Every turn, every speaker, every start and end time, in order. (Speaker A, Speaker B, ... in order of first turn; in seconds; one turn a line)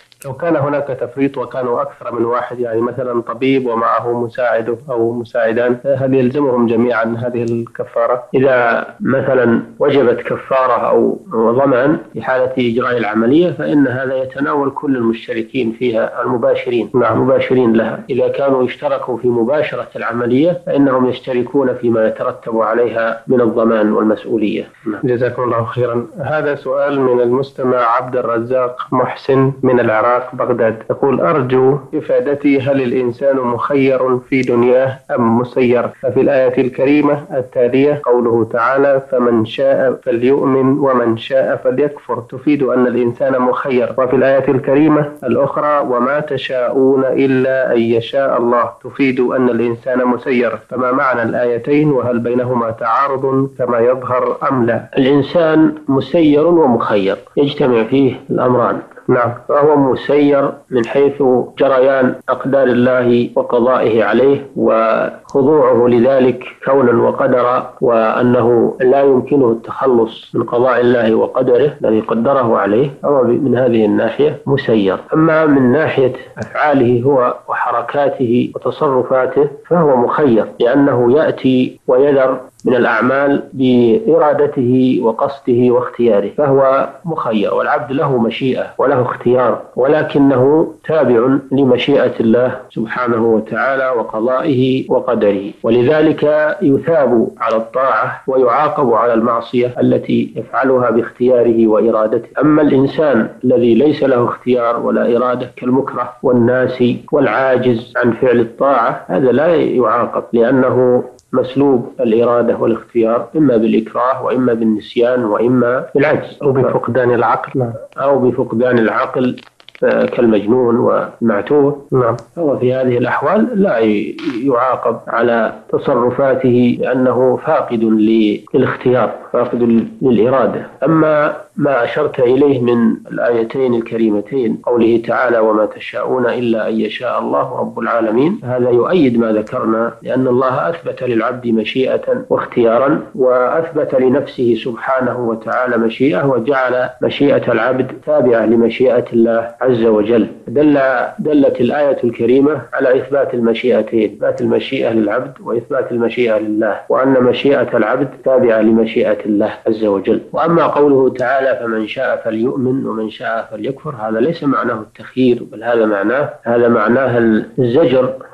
Speaker A: 0.2-8.2
Speaker B: 8.3-25.0
Speaker A: 16.9-17.2
Speaker A: 25.0-54.9
Speaker B: 54.9-58.8
Speaker A: 59.1-59.4
Speaker B: 59.5-116.7
Speaker A: 116.4-117.8
Speaker B: 118.0-168.2
Speaker A: 121.9-122.2